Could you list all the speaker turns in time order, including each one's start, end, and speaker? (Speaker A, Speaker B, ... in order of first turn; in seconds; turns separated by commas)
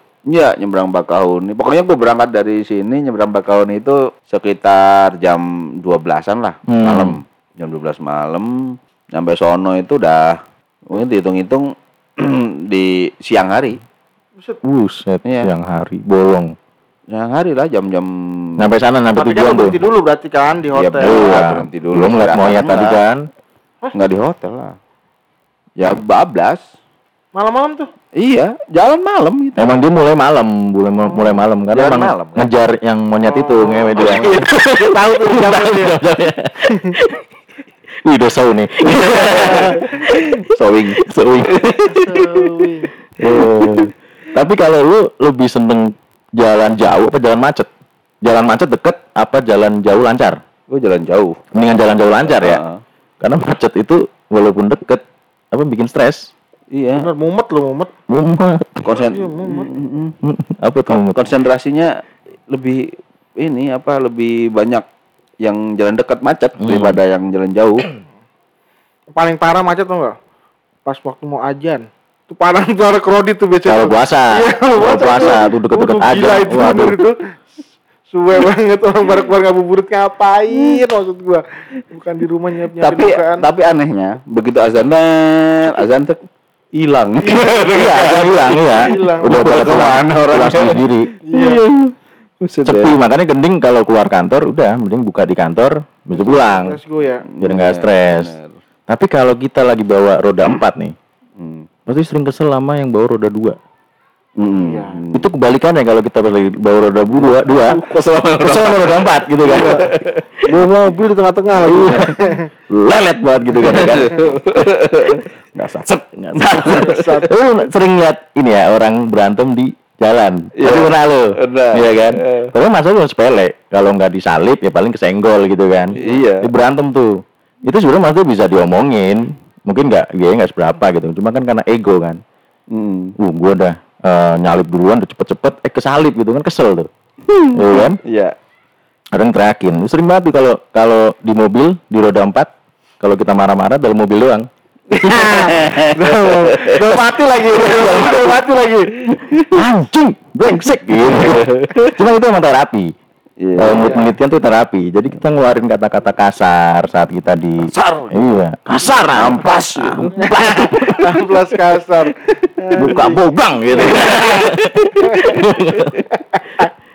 Speaker A: 0.3-13.8, Speaker B: 6.7-7.2, Speaker B: 14.6-16.5, Speaker A: 15.2-15.5, Speaker A: 17.1-18.7, Speaker B: 18.6-19.8, Speaker C: 19.1-21.4, Speaker A: 20.7-23.0, Speaker B: 21.0-23.2, Speaker A: 23.9-24.8, Speaker A: 25.8-26.6, Speaker C: 27.3-27.9, Speaker A: 28.2-29.8, Speaker B: 29.6-37.2, Speaker A: 31.7-32.5, Speaker C: 33.2-36.0, Speaker A: 34.0-34.6, Speaker B: 38.0-41.9, Speaker A: 38.8-42.6, Speaker C: 39.4-39.8, Speaker C: 41.9-42.9, Speaker B: 43.2-47.7, Speaker A: 43.2-43.9, Speaker B: 48.2-50.4, Speaker A: 50.7-51.4, Speaker B: 51.5-52.6, Speaker A: 52.3-52.8, Speaker B: 53.2-56.3, Speaker A: 56.7-57.1, Speaker C: 57.0-57.9, Speaker B: 58.1-58.9, Speaker A: 58.8-60.1, Speaker C: 58.9-59.7, Speaker B: 60.2-61.2, Speaker A: 60.9-62.9, Speaker A: 63.4-64.8, Speaker A: 65.4-67.9, Speaker B: 66.6-67.0, Speaker C: 69.1-70.2, Speaker C: 70.8-77.3, Speaker B: 73.6-77.0, Speaker C: 78.1-83.4, Speaker A: 82.8-86.2, Speaker A: 86.7-93.0, Speaker C: 87.2-87.5, Speaker B: 87.7-91.1, Speaker C: 88.6-89.5, Speaker C: 91.2-91.6, Speaker B: 92.6-96.8, Speaker C: 96.2-97.2, Speaker A: 97.3-98.5, Speaker B: 97.4-98.3, Speaker B: 98.9-100.9, Speaker A: 101.4-101.7, Speaker B: 101.8-103.6, Speaker A: 104.4-105.3, Speaker C: 104.6-105.0, Speaker B: 105.1-107.8, Speaker A: 107.2-110.2, Speaker B: 108.4-109.9, Speaker C: 109.4-109.9, Speaker C: 110.5-112.5, Speaker B: 111.6-114.3, Speaker A: 113.6-117.2, Speaker B: 115.9-127.1, Speaker C: 116.6-117.3, Speaker A: 120.6-122.5, Speaker A: 126.0-126.5, Speaker B: 127.7-132.2, Speaker A: 132.7-133.2, Speaker B: 133.2-136.9, Speaker A: 137.2-138.3, Speaker B: 137.5-138.0, Speaker B: 139.1-142.5, Speaker B: 143.0-144.5, Speaker C: 144.9-148.9, Speaker A: 144.9-147.0, Speaker A: 147.5-148.4, Speaker A: 149.1-149.5, Speaker B: 149.5-152.9, Speaker A: 151.0-151.9, Speaker A: 153.4-154.0, Speaker B: 153.6-161.2, Speaker C: 153.7-154.1, Speaker A: 157.7-158.2, Speaker A: 159.1-160.2, Speaker C: 160.2-163.2, Speaker A: 162.3-162.9, Speaker B: 162.8-166.0, Speaker C: 163.8-166.7, Speaker A: 163.9-164.8